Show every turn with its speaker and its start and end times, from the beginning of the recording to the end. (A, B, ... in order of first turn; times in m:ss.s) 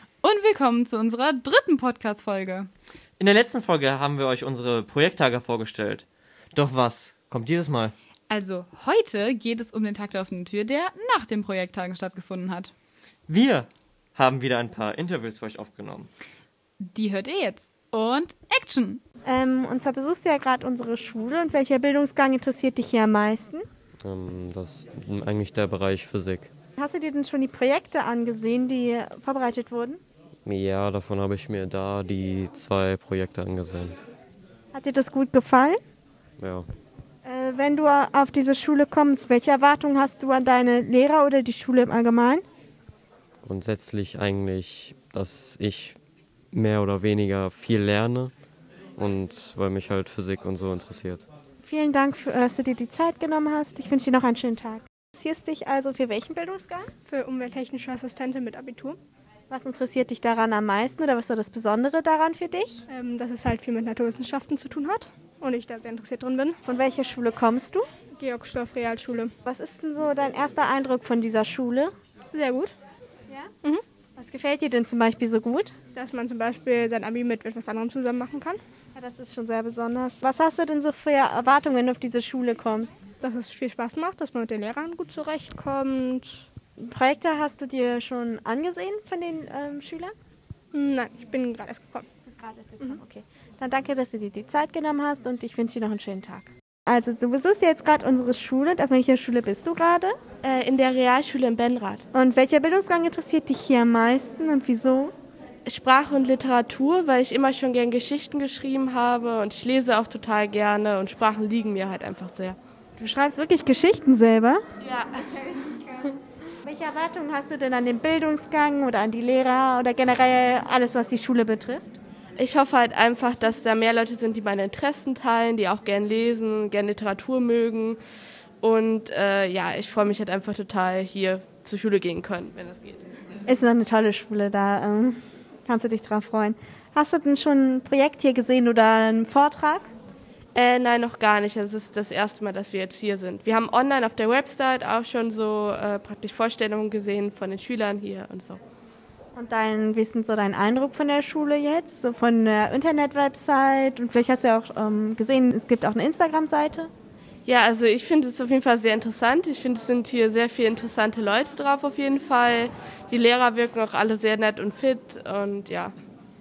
0:00.2-0:02.7 A
0:03.2-0:08.0 B
0:08.3-0:12.7 A
0:13.3-0:16.1 B
0:16.9-0:19.0 A
0:19.3-0:23.6 C
0:24.0-0:26.5 D
0:26.8-0:30.0 C
0:30.4-0:34.0 D
0:34.7-0:35.8 C
0:36.4-0:36.6 D
0:37.2-0:42.4 C
0:43.4-0:46.0 D
0:46.5-0:48.3 D
0:49.0-0:51.3 D
0:51.6-0:56.9 C
0:57.1-0:59.0 E
0:59.5-1:02.8 C
1:02.9-1:06.6 E
1:06.6-1:07.9 C
1:08.2-1:09.3 E
1:09.5-1:11.9 C
1:12.3-1:12.8 E
1:14.2-1:15.7 C
1:16.0-1:18.6 E
1:19.0-1:23.0 C
1:23.2-1:26.4 E
1:26.8-1:30.1 C
1:30.7-1:32.1 E
1:32.3-1:40.2 C
1:40.4-1:42.0 F
1:42.1-1:45.1 C
1:45.7-1:52.6 F
1:53.0-1:54.6 C
1:54.8-1:55.5 F
1:56.6-2:02.0 C
2:02.4-2:08.0 F
2:08.6-2:13.0 F
2:13.5-2:19.9 C
2:20.6-2:28.6 F
2:29.4-2:36.9 C
2:37.5-2:45.9 F